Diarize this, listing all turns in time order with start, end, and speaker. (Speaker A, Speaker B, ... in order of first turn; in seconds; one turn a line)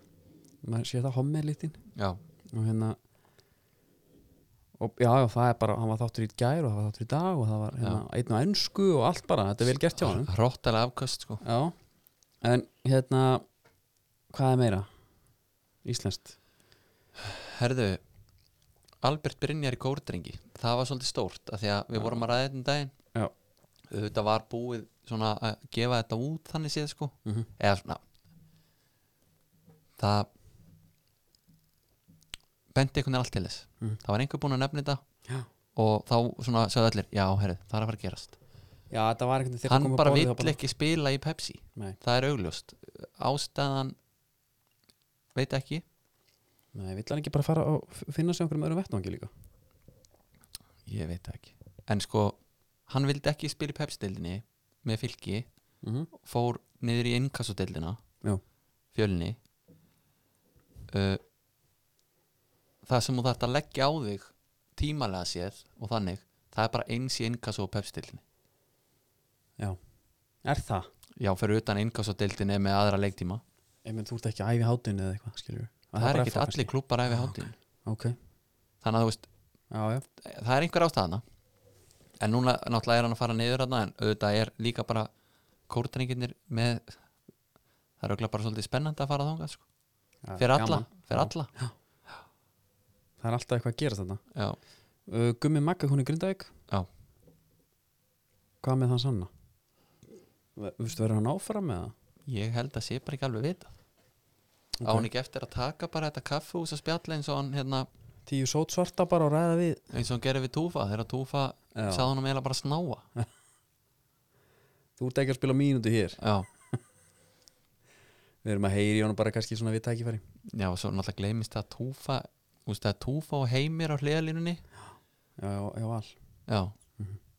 Speaker A: 0.6-1.8
Speaker A: 2.5-3.0
Speaker A: 4.8-10.3
Speaker B: 9.9-11.4
Speaker A: 11.4-11.8
Speaker A: 12.4-13.4
Speaker A: 14.3-14.9
Speaker A: 15.8-16.4
Speaker B: 17.2-18.0
Speaker B: 19.0-22.9
Speaker B: 23.9-28.0
Speaker B: 30.0-30.3
Speaker B: 32.7-35.0
Speaker B: 35.8-38.4
Speaker A: 38.9-40.6
Speaker B: 39.6-44.0
Speaker B: 45.4-45.8
Speaker A: 46.7-49.3
Speaker B: 50.9-55.5
Speaker A: 55.8-56.1
Speaker B: 56.1-58.0
Speaker B: 58.9-59.4
Speaker B: 60.9-61.2
Speaker B: 62.9-68.2
Speaker A: 70.4-70.9
Speaker B: 71.2-73.4
Speaker A: 73.8-77.3
Speaker B: 76.0-77.5
Speaker A: 77.9-78.2
Speaker B: 78.8-79.3
Speaker A: 79.7-80.0
Speaker B: 80.2-81.2
Speaker B: 82.2-85.1
Speaker B: 85.7-87.0
Speaker B: 88.0-89.6
Speaker A: 90.2-91.7
Speaker B: 90.4-91.5
Speaker A: 93.2-94.2
Speaker A: 95.1-96.5
Speaker A: 98.6-99.3
Speaker A: 100.6-101.9
Speaker B: 102.3-103.7
Speaker A: 104.8-105.1
Speaker B: 104.8-107.9
Speaker A: 108.3-109.8
Speaker B: 109.9-113.0
Speaker A: 111.7-112.1
Speaker A: 115.0-116.2
Speaker B: 116.2-116.5
Speaker A: 118.4-120.2
Speaker B: 120.5-124.6
Speaker A: 125.4-126.2
Speaker B: 126.5-126.8